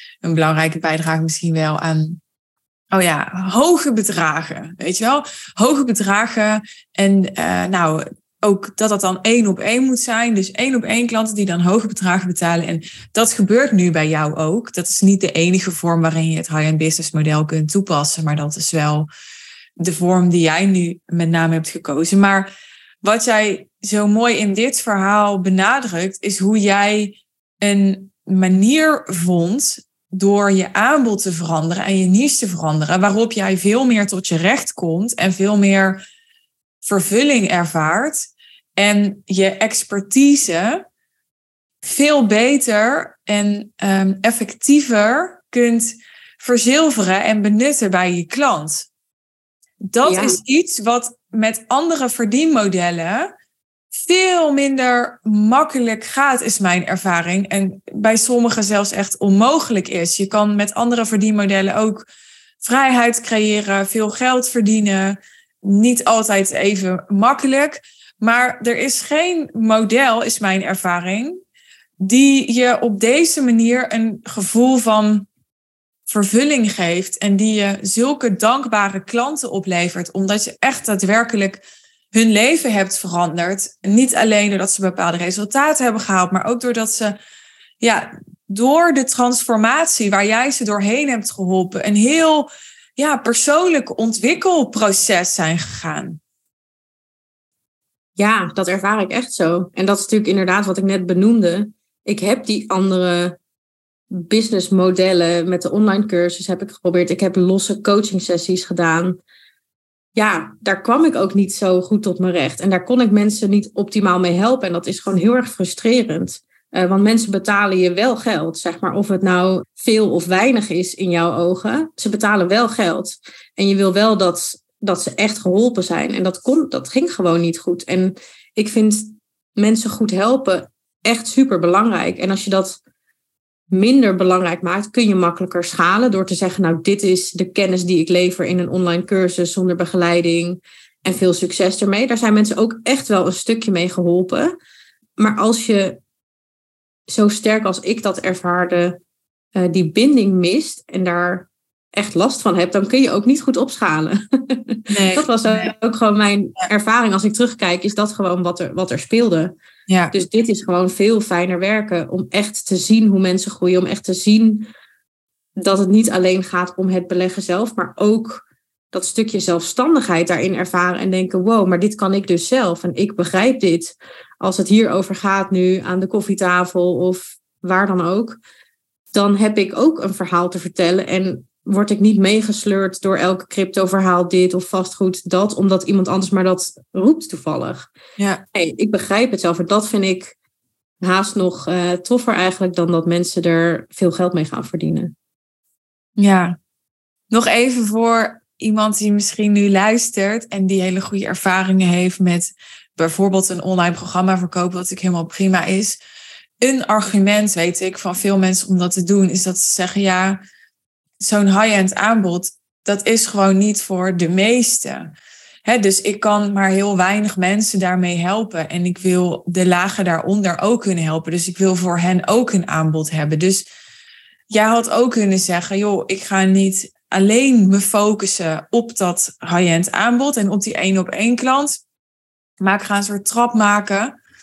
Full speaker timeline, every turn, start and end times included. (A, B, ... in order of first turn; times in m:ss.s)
0:00.2-0:02.2 A
0:02.9-0:19.1 A
0:19.8-0:22.5 A
0:23.0-0:36.0 A
0:36.8-0:40.8 A
0:41.8-0:48.9 A
0:49.9-0:53.3 A
0:50.1-0:50.4 B
0:53.9-1:02.1 A
1:02.6-1:11.4 A
1:12.0-1:15.3 A
1:16.1-1:21.6 A
1:22.1-1:27.2 A
1:27.8-1:36.2 A
1:38.2-1:43.4 B
1:44.1-1:49.2 B
1:50.2-2:12.8 B
2:13.7-2:24.5 B
2:25.2-2:26.0 B
2:27.1-2:29.0 B
2:29.6-2:39.5 B
2:34.9-2:35.7 A
2:40.1-2:44.7 B
2:45.6-2:58.4 B
2:59.1-3:07.9 B
3:08.2-3:08.4 A
3:08.5-3:10.4 B
3:11.0-3:15.1 B
3:16.2-3:16.6 A
3:17.3-3:26.0 A
3:26.6-3:30.4 A
3:31.2-3:35.1 A
3:35.6-3:43.7 A
3:44.5-3:51.8 A
3:52.6-3:54.2 A